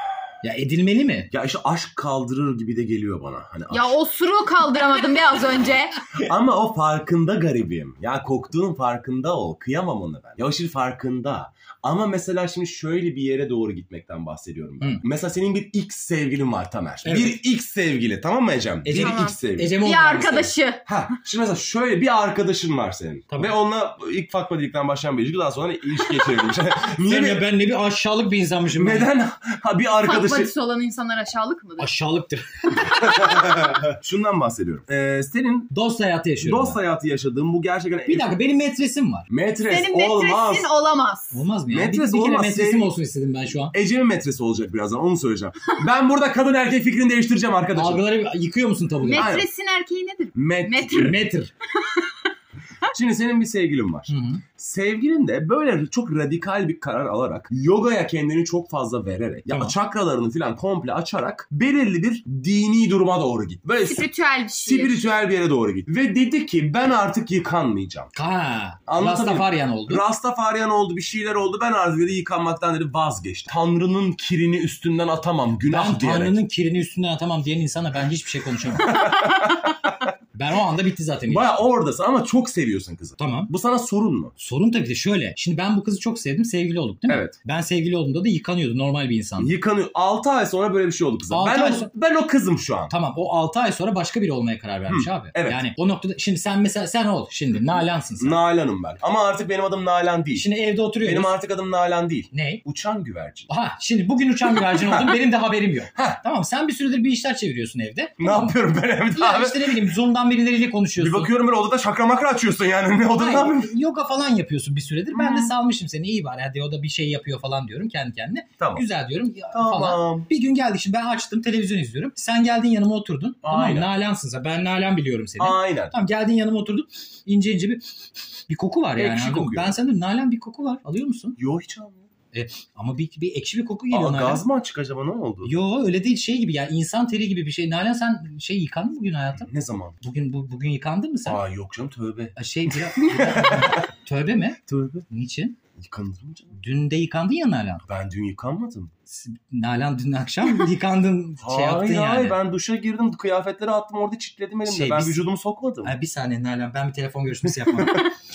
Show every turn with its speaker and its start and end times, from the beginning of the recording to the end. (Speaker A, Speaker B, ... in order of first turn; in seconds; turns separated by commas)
Speaker A: 0.4-1.3, Speaker B: 1.3-3.9, Speaker C: 3.7-6.0, Speaker B: 6.2-19.7, Speaker A: 17.0-17.4, Speaker A: 18.8-20.5, Speaker C: 18.9-20.8, Speaker B: 20.9-27.4, Speaker A: 27.0-29.1, Speaker B: 28.8-30.5, Speaker C: 30.0-31.9, Speaker A: 31.8-33.2, Speaker C: 32.9-33.4, Speaker B: 33.0-35.7, Speaker A: 35.7-36.8, Speaker B: 36.4-38.3, Speaker A: 38.1-39.2, Speaker B: 39.3-40.7, Speaker C: 39.7-41.4, Speaker A: 41.3-43.7, Speaker B: 41.7-42.9, Speaker B: 43.7-48.0, Speaker A: 47.7-49.3, Speaker C: 49.0-51.2, Speaker B: 49.1-49.5, Speaker B: 50.3-51.2, Speaker A: 51.0-51.5, Speaker C: 51.8-52.1, Speaker B: 52.9-64.1, Speaker A: 54.1-54.4, Speaker A: 59.5-59.7, Speaker C: 63.9-65.0, Speaker B: 64.6-68.1, Speaker A: 68.1-70.0, Speaker B: 68.9-76.4, Speaker A: 75.6-79.1, Speaker B: 78.8-79.9, Speaker A: 80.3-81.6, Speaker B: 81.3-84.3, Speaker A: 83.2-83.5, Speaker A: 84.4-89.5, Speaker B: 87.1-87.3, Speaker B: 89.4-92.9, Speaker A: 91.3-91.9, Speaker A: 92.9-98.4, Speaker B: 94.9-95.6, Speaker B: 98.2-100.5, Speaker A: 100.3-101.3, Speaker B: 101.0-103.5, Speaker A: 102.3-102.6, Speaker A: 103.5-108.5, Speaker B: 104.6-105.2, Speaker B: 108.2-109.8, Speaker A: 109.1-111.3, Speaker B: 111.0-113.7, Speaker A: 113.2-127.8, Speaker B: 118.6-118.8, Speaker B: 119.5-120.3, Speaker B: 123.4-123.9, Speaker B: 125.4-125.9, Speaker A: 128.5-131.4, Speaker B: 129.0-129.7, Speaker B: 131.4-132.0, Speaker A: 132.3-134.4, Speaker B: 133.9-135.5, Speaker A: 135.4-139.5, Speaker B: 139.4-140.0, Speaker A: 140.0-141.4, Speaker B: 141.2-143.9, Speaker A: 142.3-145.6, Speaker B: 144.7-145.1, Speaker B: 145.8-146.6, Speaker A: 146.6-147.8, Speaker B: 147.9-148.9, Speaker A: 149.1-152.4, Speaker B: 151.4-155.9, Speaker A: 154.7-155.2, Speaker A: 155.8-158.1, Speaker B: 157.7-158.0